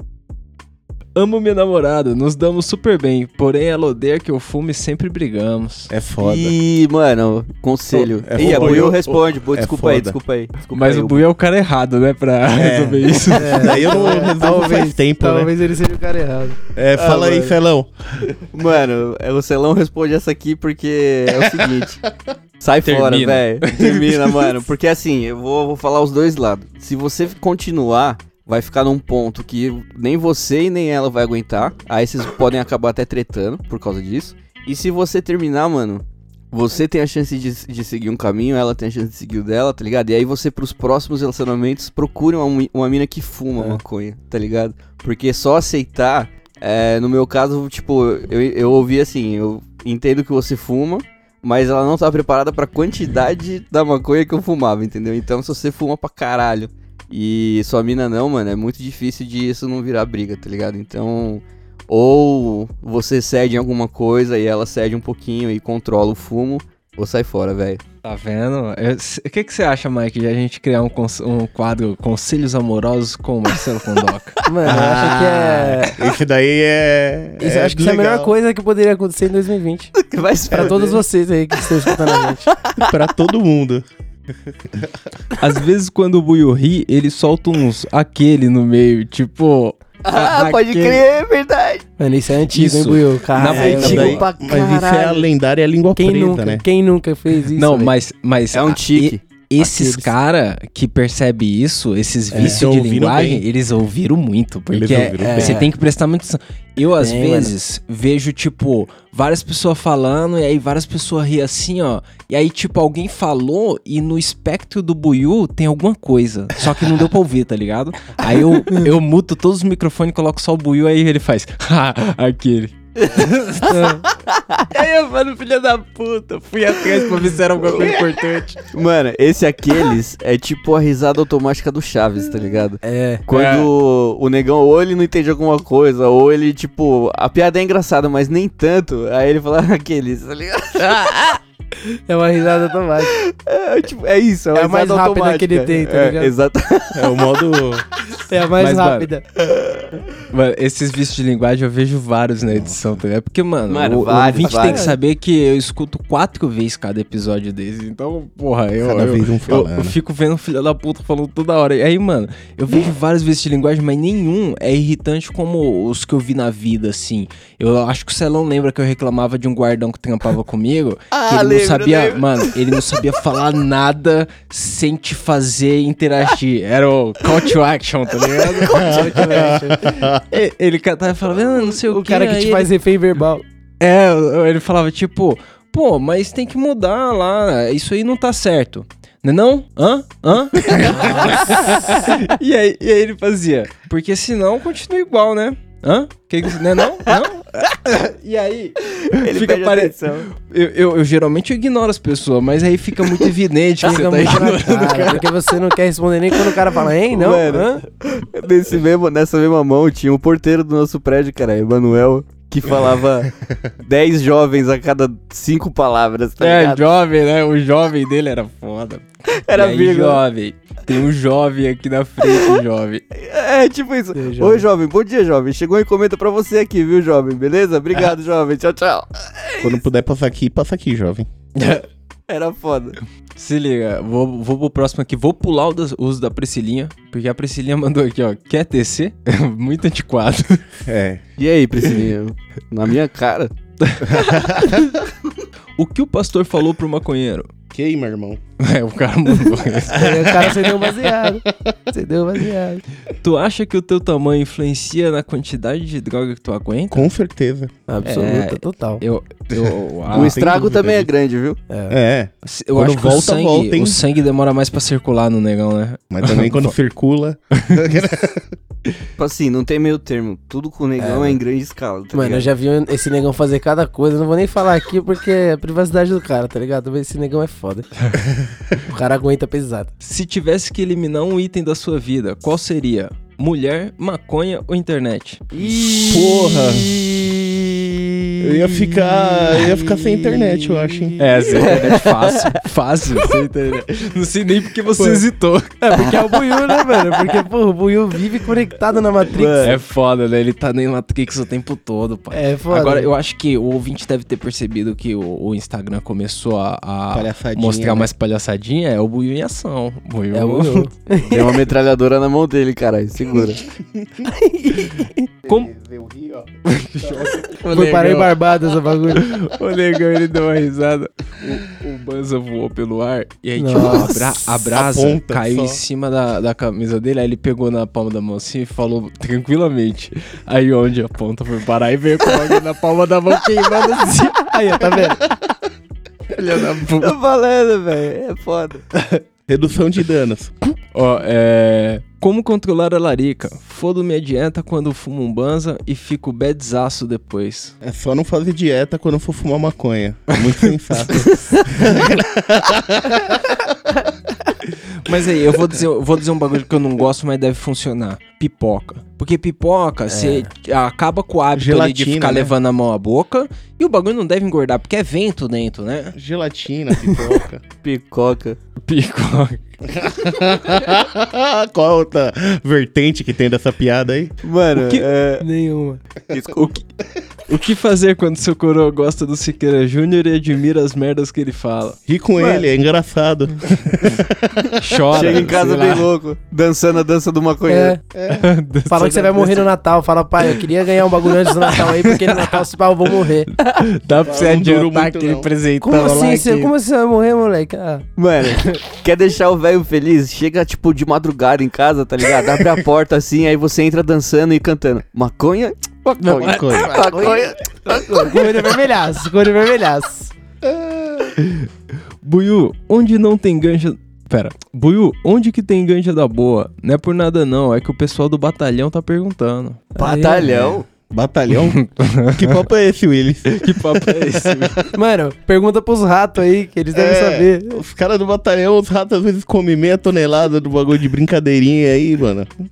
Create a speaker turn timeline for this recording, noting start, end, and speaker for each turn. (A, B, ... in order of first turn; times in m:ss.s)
0:01.2-0:05.9 A
0:05.9-0:06.5 B
0:06.2-0:11.3 C
0:07.9-0:10.2 B
0:08.4-0:08.9 A
0:10.7-0:14.0 A
0:12.6-0:15.5 B
0:13.4-0:16.6 D
0:16.8-0:17.9 B
0:16.9-0:17.6 C
0:18.5-0:22.0 C
0:22.6-1:07.8 C
0:22.8-0:24.5 A
1:08.0-1:14.4 A
1:14.5-1:16.0 D
1:14.6-1:18.3 B
1:17.4-1:19.9 D
1:20.0-1:21.0 C
1:20.5-1:22.5 D
1:21.8-1:22.6 C
1:22.8-1:23.9 B
1:25.4-1:31.0 A
1:30.0-1:31.8 C
1:32.0-1:34.2 D
1:32.5-1:34.2 A
1:33.5-1:35.3 C
1:33.5-1:36.6 B
1:36.0-1:37.9 D
1:37.6-2:04.0 A
1:38.5-1:40.1 C
1:42.3-1:42.6 D
1:42.4-1:43.4 B
1:44.7-1:45.7 B
1:45.2-1:45.7 D
1:47.0-1:47.5 D
2:03.7-2:04.0 D
2:04.7-2:08.6 A
2:08.7-2:21.0 C
2:12.8-2:13.2 D
2:13.3-2:13.7 A
2:22.1-2:23.1 D
2:23.0-2:27.2 C
2:24.5-2:26.3 D
2:26.9-2:27.8 B
2:28.3-2:29.3 D
2:28.6-2:29.1 A
2:30.3-2:59.3 A
2:32.5-2:32.8 B
2:33.7-2:35.0 C
2:34.4-2:34.9 D
2:38.9-2:40.0 B
2:51.1-2:52.8 C
2:58.6-2:59.0 C
2:58.7-2:59.9 D
2:59.2-3:00.2 B
3:00.2-3:02.7 A
3:01.6-3:03.4 D
3:03.8-3:25.3 A
3:18.9-3:20.3 C
3:23.8-3:27.8 D
3:27.1-3:36.8 C
3:36.4-3:43.0 A
3:39.4-3:40.2 C
3:42.2-3:42.6 C
3:43.1-3:49.8 C
3:44.2-3:44.7 D
3:49.6-3:51.3 B
3:51.6-3:51.9 A
3:52.3-3:53.0 C
3:53.4-4:00.6 A
4:00.9-4:01.2 B
4:01.4-4:03.5 C
4:04.2-4:04.8 B
4:05.8-4:07.5 A
4:07.7-4:08.4 B
4:08.6-4:10.0 A
4:09.4-4:12.8 D
4:10.0-4:11.3 B
4:13.2-4:17.1 A
4:16.9-4:17.7 B
4:17.9-4:19.0 D
4:18.0-4:20.4 A
4:19.5-4:21.1 B
4:20.1-4:21.6 C
4:21.7-4:22.0 D
4:21.9-4:24.0 B
4:22.4-4:26.7 A
4:26.1-4:28.5 B
4:29.2-4:32.5 C
4:31.0-4:31.4 D
4:32.1-4:37.9 D
4:38.8-4:39.9 D
4:40.0-4:45.6 A
4:45.5-4:52.6 C
4:46.1-4:46.9 B
4:48.4-4:51.2 B
4:51.2-4:55.9 A
4:55.0-4:55.2 D
4:55.8-4:59.8 D
4:59.3-4:59.8 C
4:59.6-5:10.9 A
5:02.3-5:03.1 D
5:07.1-5:08.1 B
5:10.3-5:11.6 D
5:11.3-5:13.6 C
5:14.2-5:15.3 D
5:15.4-5:17.3 B
5:16.7-5:18.3 A
5:17.7-5:19.3 D
5:19.1-5:34.4 A
5:23.6-5:24.2 D
5:23.8-5:25.8 B
5:33.8-5:34.1 C
5:34.5-5:35.2 D
5:36.4-5:37.1 A
5:36.5-5:38.8 C
5:39.5-5:40.5 B
5:40.9-5:47.7 A
5:47.8-5:53.6 B
5:55.0-6:06.2 A
6:00.1-6:00.5 D
6:01.6-6:02.5 B
6:06.2-6:07.6 B
6:07.8-6:08.6 C
6:08.8-6:09.6 A
6:10.0-6:14.4 B
6:14.4-6:15.5 C
6:15.4-6:16.0 D
6:16.3-6:16.8 C
6:17.5-6:22.0 A
6:22.1-6:25.5 B
6:22.4-6:22.6 D
6:24.8-6:26.1 A
6:25.1-6:28.0 C
6:27.7-6:28.0 D
6:28.1-6:28.5 B
6:28.3-6:29.7 A
6:28.9-6:33.5 D
6:31.6-6:32.6 A
6:33.6-6:36.7 A
6:34.2-6:35.5 B
6:35.8-6:38.0 D
6:38.2-6:48.8 C
6:46.2-6:50.3 D
6:46.4-6:47.3 B
6:51.4-6:51.7 A
6:52.2-6:59.8 A
7:00.0-7:00.9 C
7:00.0-7:00.5 D
7:00.4-7:04.8 B
7:01.8-7:02.3 A
7:03.5-7:04.9 A
7:04.9-7:07.8 D
7:06.9-7:12.5 B